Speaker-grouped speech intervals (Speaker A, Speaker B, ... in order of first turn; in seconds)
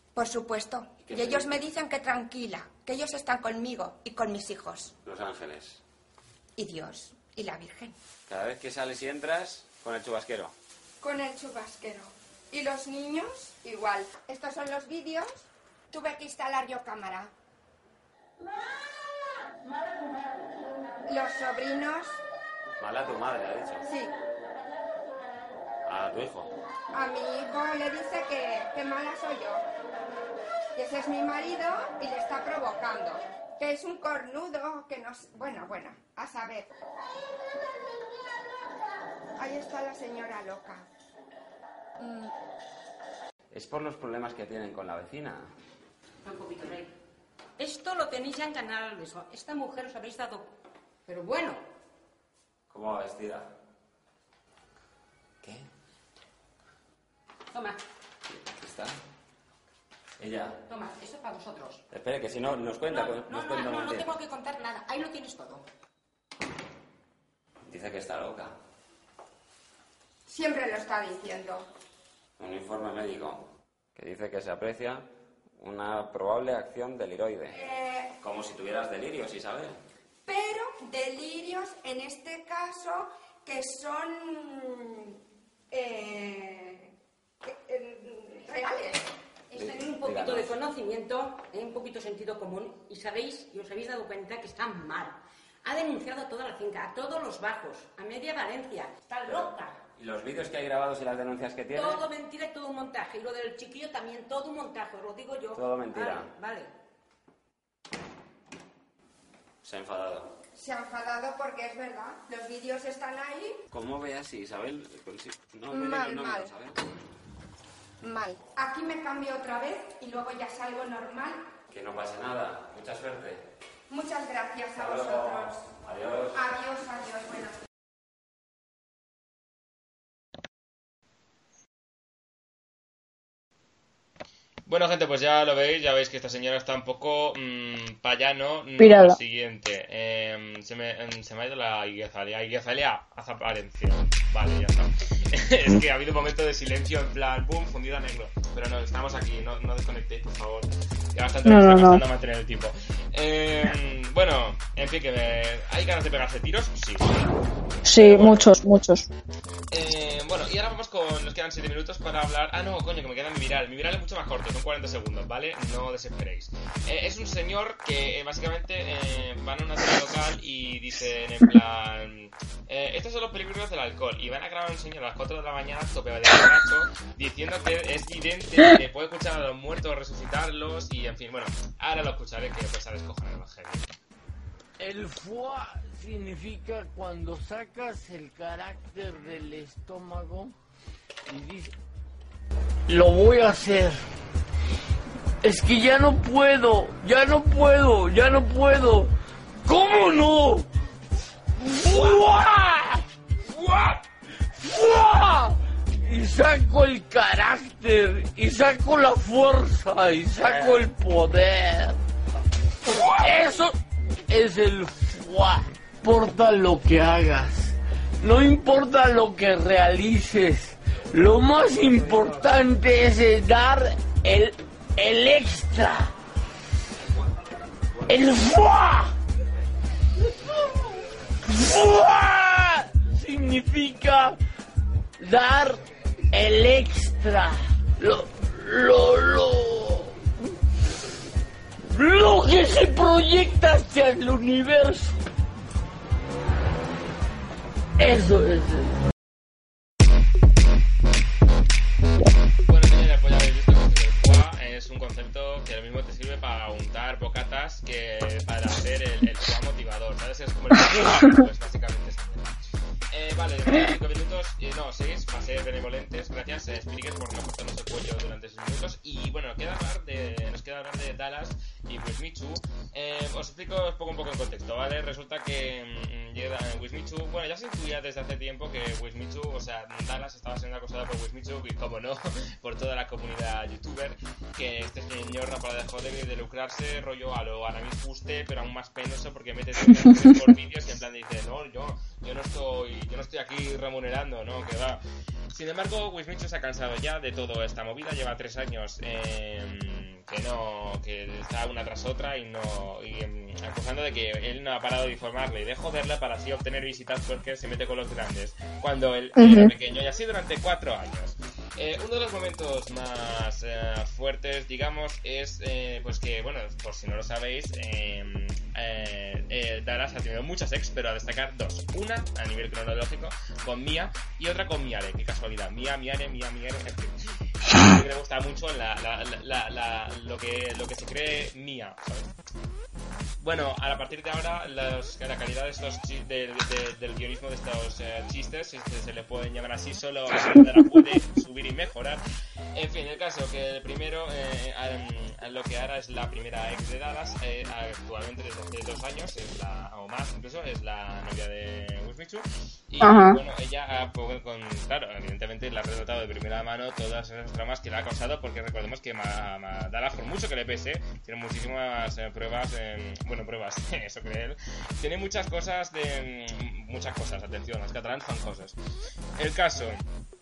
Speaker A: 0.1-4.9, 6.6-7.9, 11.0-17.3, 21.1-22.2, 23.9-24.1, 26.9-29.6, 30.7-36.7, 39.4-40.9, 42.0-42.3, 70.2-71.7, 77.5-78.1, 80.2-85.2, 85.7-89.1, 110.5-113.6, 115.7-116.5, 118.0-121.4, 123.9-125.7, 126.3-127.6
Speaker B: 1.0-1.6, 5.0-5.8, 8.3-10.5, 22.8-23.8, 25.9-26.5, 43.5-45.5, 52.7-53.5, 55.4-55.7, 58.4-59.0, 60.2-60.6, 61.9-64.1, 67.6-68.5, 72.4-75.0, 75.6-77.7, 78.2-79.8, 89.5-90.5, 99.2-102.0, 105.5-106.3, 109.6-110.3, 113.7-116.8, 121.7-123.4, 124.8-126.5
Speaker C: 46.2-46.9, 47.6-50.5, 51.1-51.6, 57.5-57.8, 60.7-61.8, 62.9-65.7, 89.5-99.8, 101.7-106.7
Speaker D: 134.7-157.2, 157.8-158.5, 159.7-183.9, 252.7-295.0, 295.5-327.1, 327.7-332.3, 333.4-342.2, 342.7-368.8, 369.4-370.1
Speaker E: 138.8-139.2, 151.4-152.0, 157.8-159.1, 309.4-309.7, 353.0-353.4
Speaker F: 184.8-190.5, 191.3-191.7, 192.9-194.0, 195.4-199.1, 199.6-200.7, 201.6-204.0, 204.6-212.0, 212.9-213.7, 214.3-226.1, 228.1-229.1, 231.4-234.3, 235.2-235.8, 236.3-240.1, 241.9-245.1, 248.0-248.9